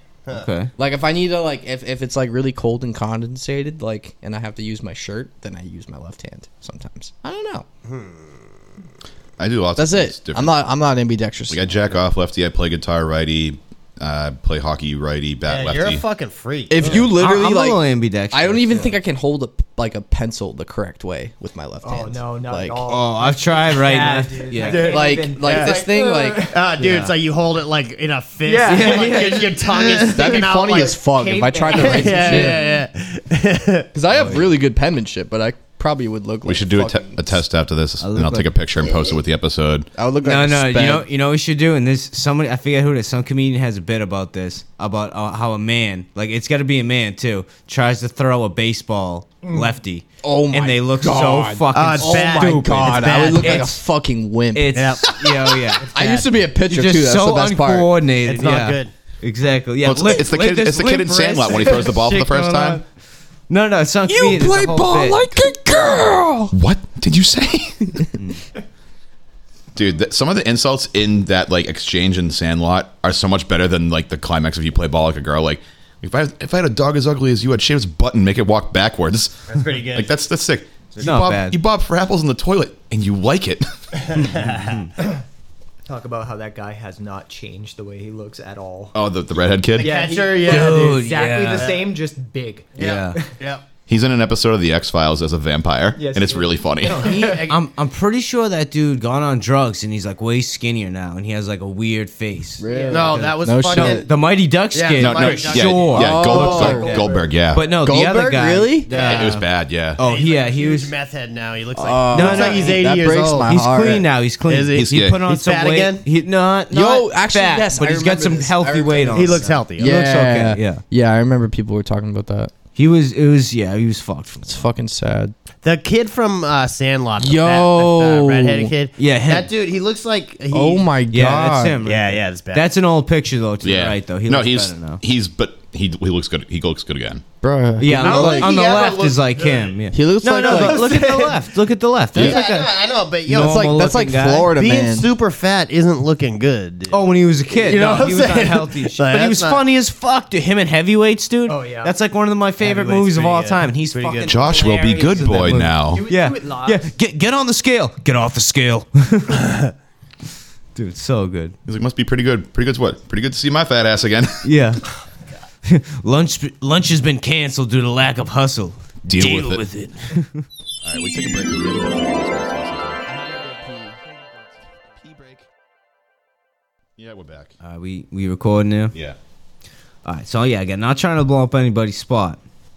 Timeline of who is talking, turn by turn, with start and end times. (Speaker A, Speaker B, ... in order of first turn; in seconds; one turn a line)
Speaker A: 0.3-0.7
Speaker B: 0.8-7.7
Speaker C: 7.9-8.6
Speaker D: 9.4-10.6
Speaker B: 9.8-11.7
Speaker D: 11.5-16.0
Speaker C: 15.5-17.1
Speaker B: 16.7-22.8
Speaker A: 16.8-18.9
Speaker E: 21.8-27.0
Speaker A: 22.9-24.9
Speaker C: 24.6-31.0
Speaker B: 24.9-26.6
Speaker A: 26.8-27.1
Speaker E: 28.5-29.3
Speaker A: 28.6-30.2
Speaker B: 30.1-32.7
Speaker E: 31.0-32.7
Speaker C: 31.7-33.9
Speaker B: 33.9-37.2
Speaker A: 34.1-34.5
Speaker D: 36.5-39.9
Speaker A: 38.0-38.5
Speaker B: 40.0-41.1
Speaker A: 40.2-53.8
Speaker B: 50.2-54.9
Speaker C: 51.7-53.8
Speaker A: 54.5-56.0
Speaker C: 54.7-55.1
Speaker C: 55.8-56.1
Speaker B: 55.9-57.9
Speaker A: 56.6-62.8
Speaker C: 58.2-58.9
Speaker D: 59.8-62.8
Speaker A: 63.5-65.2
Speaker B: 64.1-66.5
Speaker D: 66.5-68.1
Speaker D: 69.8-84.2
Speaker C: 79.5-80.1
Speaker A: 81.0-81.6
Speaker C: 84.0-84.9
Speaker A: 84.4-84.9
Speaker E: 85.9-89.0
Speaker D: 89.0-89.9
Speaker C: 89.8-91.9
Speaker E: 89.8-92.7
Speaker A: 90.4-91.7
Speaker C: 92.8-93.6
Speaker A: 92.8-93.2
Speaker D: 93.9-97.0
Speaker E: 96.0-97.5
Speaker C: 96.9-97.6
Speaker A: 97.5-102.6
Speaker B: 102.6-104.1
Speaker E: 102.7-103.2
Speaker C: 102.9-104.1
Speaker A: 103.7-106.7
Speaker C: 104.7-107.0
Speaker D: 105.0-107.6
Speaker B: 106.0-107.0
Speaker E: 106.2-107.3
Speaker A: 107.5-110.9
Speaker B: 107.8-108.9
Speaker C: 108.9-109.3
Speaker D: 109.0-110.0
Speaker C: 110.0-113.6
Speaker B: 111.8-114.1
Speaker A: 112.1-112.8
Speaker A: 113.5-120.8
Speaker C: 114.4-116.0
Speaker D: 114.8-115.2
Speaker B: 116.7-122.5
Speaker C: 119.1-120.0
Speaker A: 122.8-124.5
Speaker B: 124.4-125.3
Speaker C: 125.6-130.9
Speaker B: 127.2-128.7
Speaker A: 129.0-129.5
Speaker B: 130.5-131.8
Speaker A: 131.1-135.0
Speaker C: 131.8-132.7
Speaker D: 133.6-137.2
Speaker B: 137.4-138.5
Speaker A: 137.8-144.5
Speaker C: 138.0-141.4
Speaker B: 139.9-141.0
Speaker C: 142.1-143.8
Speaker B: 143.3-145.1
Speaker C: 144.5-149.6
Speaker A: 146.9-159.5
Speaker E: 151.5-152.0
Speaker E: 152.6-153.6
Speaker C: 153.4-154.7
Speaker D: 154.3-156.0
Speaker E: 155.9-156.9
Speaker A: 160.8-161.6
Speaker D: 161.7-164.5
Speaker A: 164.4-164.8
Speaker A: 165.7-170.5
Speaker D: 169.1-169.6
Speaker D: 170.8-173.0
Speaker B: 173.1-174.0
Speaker D: 175.0-175.5
Speaker D: 177.0-177.5
Speaker A: 177.6-178.9
Speaker A: 180.1-182.4